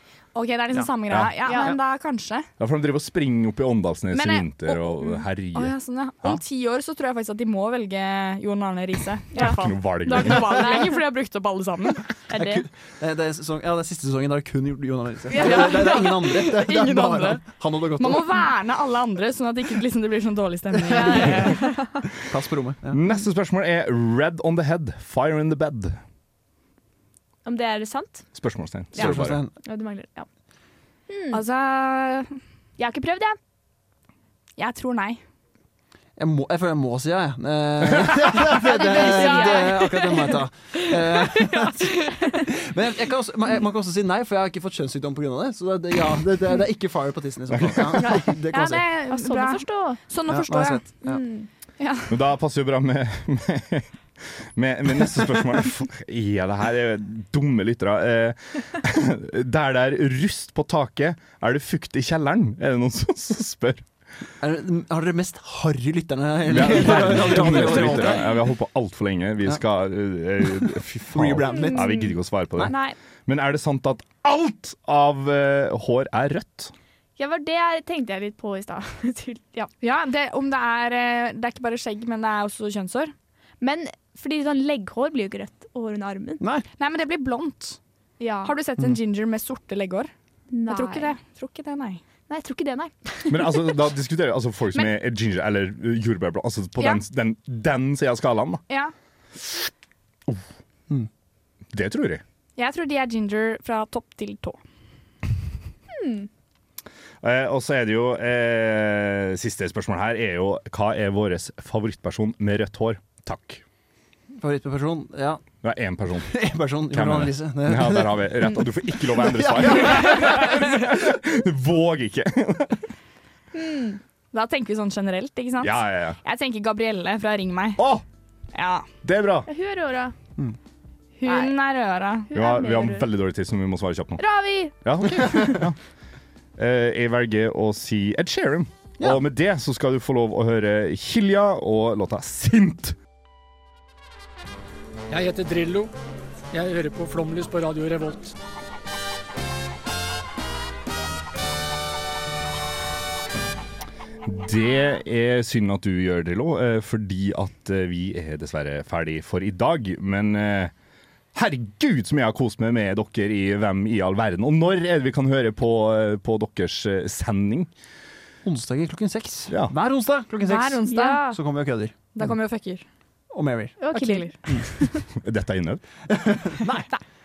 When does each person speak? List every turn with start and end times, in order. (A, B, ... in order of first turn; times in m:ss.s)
0:00.4-0:02.5 A
0:01.1-0:01.3 B
0:01.5-0:01.7 C
0:02.6-0:06.4 B
0:04.1-0:12.1 A
0:09.3-0:09.6 C
0:09.4-0:10.8 B
0:10.4-0:11.0 C
0:12.3-0:12.7 C
0:12.3-0:18.3 D
0:15.3-0:16.0 C
0:15.4-0:21.8 A
0:20.8-0:21.4 D
0:20.9-0:22.0 C
0:22.3-0:23.0 D
0:22.9-0:26.0 B
0:27.4-0:28.3 C
0:28.4-0:29.4 B
0:28.9-0:30.3 C
0:29.0-0:29.5 D
0:31.1-0:31.4 C
0:31.3-0:32.4 A
0:32.8-0:33.4 C
0:34.6-0:35.2 A
0:36.2-0:48.8 D
0:38.7-0:40.3 C
0:38.8-0:40.3 A
0:41.1-0:42.3 A
0:47.5-0:48.2 B
0:48.0-0:50.0 C
0:48.6-0:51.0 A
0:50.3-0:51.2 D
0:51.0-0:51.5 C
0:51.8-0:52.2 A
0:52.1-0:53.9 B
0:54.4-1:03.8 B
1:04.4-1:08.3 D
1:06.4-1:12.8 B
1:11.1-1:12.7 D
1:11.5-1:13.0 C
1:13.3-1:16.7 B
1:17.2-1:19.7 C
1:19.8-1:23.1 A
1:23.6-1:26.4 C
1:26.4-1:26.6 D
1:26.8-1:27.8 A
1:28.2-1:28.5 C
1:28.4-1:30.1 A
1:30.5-1:31.2 C
1:30.7-1:32.0 A
1:32.3-1:33.8 C
1:33.3-1:38.6 B
1:41.7-1:42.2 B
1:42.6-1:44.6 A
1:45.9-1:46.3 C
1:47.2-1:53.6 B
1:54.4-1:55.4 D
1:55.6-1:56.4 B
1:56.3-1:58.3 D
1:56.9-2:02.8 B
1:59.4-2:00.5 D
2:03.5-2:04.0 C
2:04.3-2:07.8 A
2:05.6-2:06.2 B
2:07.8-2:08.0 B
2:08.5-2:08.9 A
2:09.0-2:09.5 B
2:09.5-2:10.2 C
2:11.2-2:12.3 A
2:11.3-2:11.5 C
2:12.3-2:13.1 C
2:12.3-2:14.2 B
2:14.2-2:15.6 C
2:14.8-2:15.8 B
2:16.6-2:23.0 B
2:25.1-2:25.9 E
2:26.5-2:28.4 E
2:34.3-2:40.7 B
2:41.3-2:47.7 B
2:48.4-2:51.9 D
2:49.5-2:49.7 B
2:50.5-2:51.4 A
2:50.5-2:51.4 C
2:52.1-2:52.8 A
2:53.3-2:53.8 D
2:53.8-2:55.0 C
2:53.9-2:54.3 A
2:55.2-2:55.8 B
2:56.1-2:56.9 D